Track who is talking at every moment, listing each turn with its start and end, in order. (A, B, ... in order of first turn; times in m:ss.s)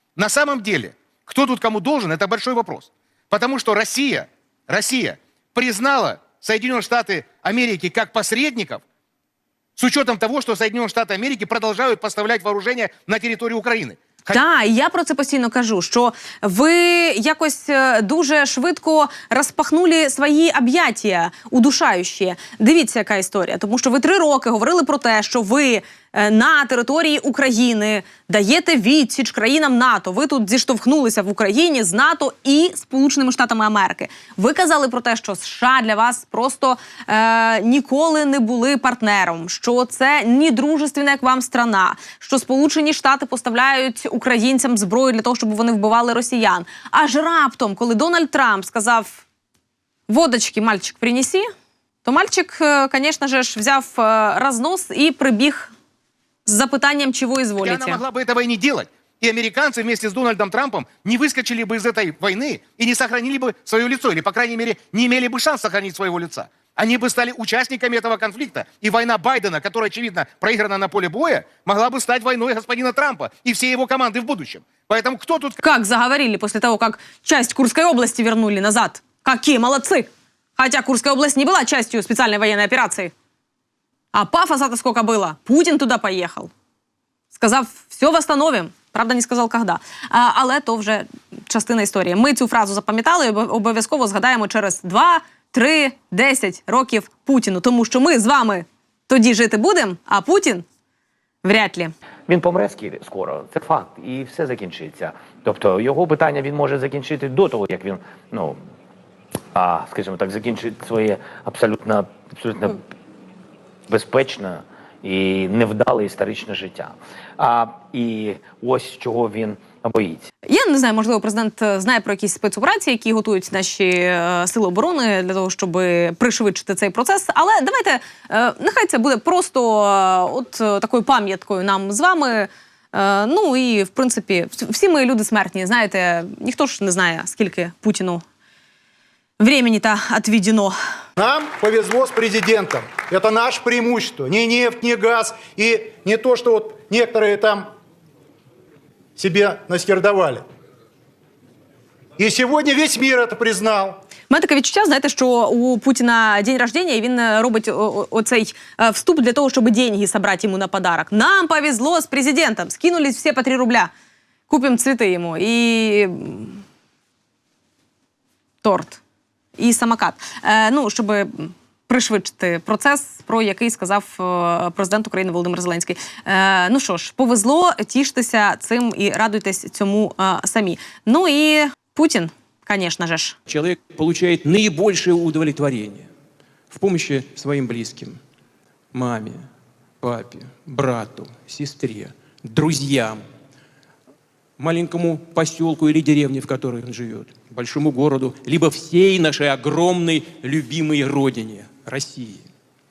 0:00.2-0:08.8 A
0:09.8-0:14.4 A
0:14.3-0:49.2 B
0:50.1-0:51.4 B
0:52.0-0:55.7 B
0:56.4-0:58.0 B
0:57.6-1:15.6 A
1:15.6-1:23.1 B
1:24.1-1:26.5 B
1:27.3-1:40.6 B
1:41.4-1:41.9 B
1:42.3-1:48.6 C
1:49.5-1:52.8 C
1:53.9-2:00.3 C
2:00.4-2:18.2 B
2:19.4-2:20.7 B
2:21.2-2:27.7 D
2:29.2-2:30.4 D
2:32.2-2:34.0 D
2:34.3-2:43.9 B
2:44.5-2:46.6 B
2:48.6-2:49.0 B
2:49.6-3:03.4 B
3:03.5-3:06.1 E
3:06.7-3:08.2 E
3:08.9-3:09.4 E
3:10.0-3:13.2 E
3:14.6-3:22.4 E